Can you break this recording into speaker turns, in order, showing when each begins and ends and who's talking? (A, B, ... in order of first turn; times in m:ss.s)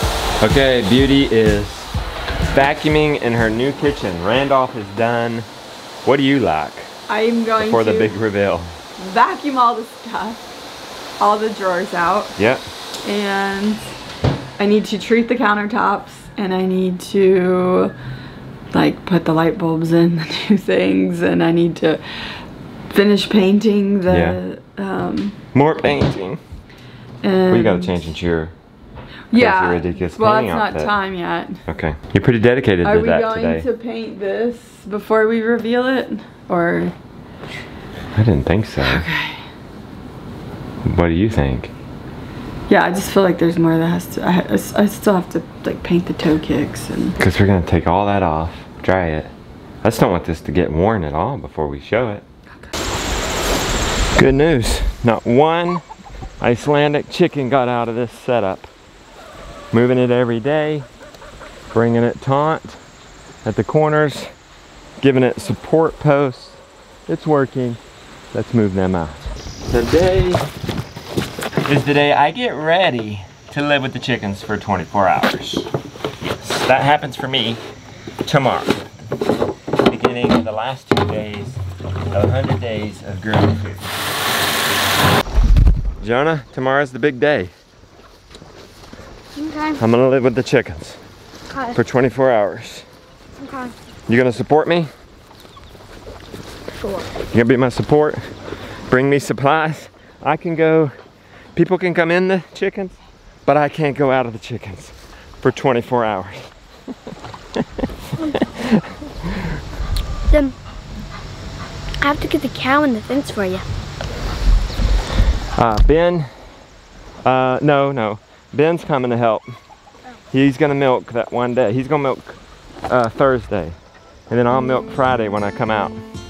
0:00.4-0:01.9 A
0:02.5-0:05.5 A
0:06.0-0:06.9 A
0:07.1-0:08.1 B
0:07.6-0:08.7 A
0:09.0-0:10.4 B
0:11.2-0:12.4 B
0:12.4-0:12.6 A
0:13.0-0:13.9 B
0:14.6-0:17.9 B
0:18.7-0:25.4 B
0:24.1-0:24.4 A
0:25.5-0:26.4 A
0:27.2-0:28.0 B
0:27.5-0:28.5 A
0:29.3-0:31.6 B
0:29.4-0:31.0 A
0:31.7-0:33.7 A
0:32.8-0:36.9 B
0:38.2-0:39.1 A
0:38.8-0:39.4 B
0:40.8-0:41.7 A
0:42.7-0:47.2 B
0:47.2-0:49.3 A
0:49.8-0:52.2 A
0:54.2-0:55.8 A
0:56.4-0:58.7 A
0:59.7-1:00.9 A
1:01.7-1:02.8 A
1:03.4-1:04.3 A
1:05.0-1:07.8 A
1:08.3-1:10.4 A
1:11.7-1:15.7 A
1:16.4-1:17.6 A
1:18.2-1:18.8 A
1:19.9-1:21.6 A
1:22.1-1:23.9 A
1:26.0-1:27.5 A
1:29.4-1:29.8 C
1:29.8-1:31.0 A
1:31.5-1:31.8 C
1:31.7-1:32.8 A
1:33.4-1:33.7 C
1:34.1-1:34.9 A
1:36.8-1:37.1 C
1:37.3-1:38.2 A
1:38.9-1:40.9 A
1:41.6-1:46.5 A
1:48.4-1:49.4 A
1:50.3-1:50.6 C
1:52.0-1:53.6 C
1:55.6-1:56.3 A
1:57.2-1:59.5 A
2:00.3-2:03.8 A
2:04.3-2:06.0 A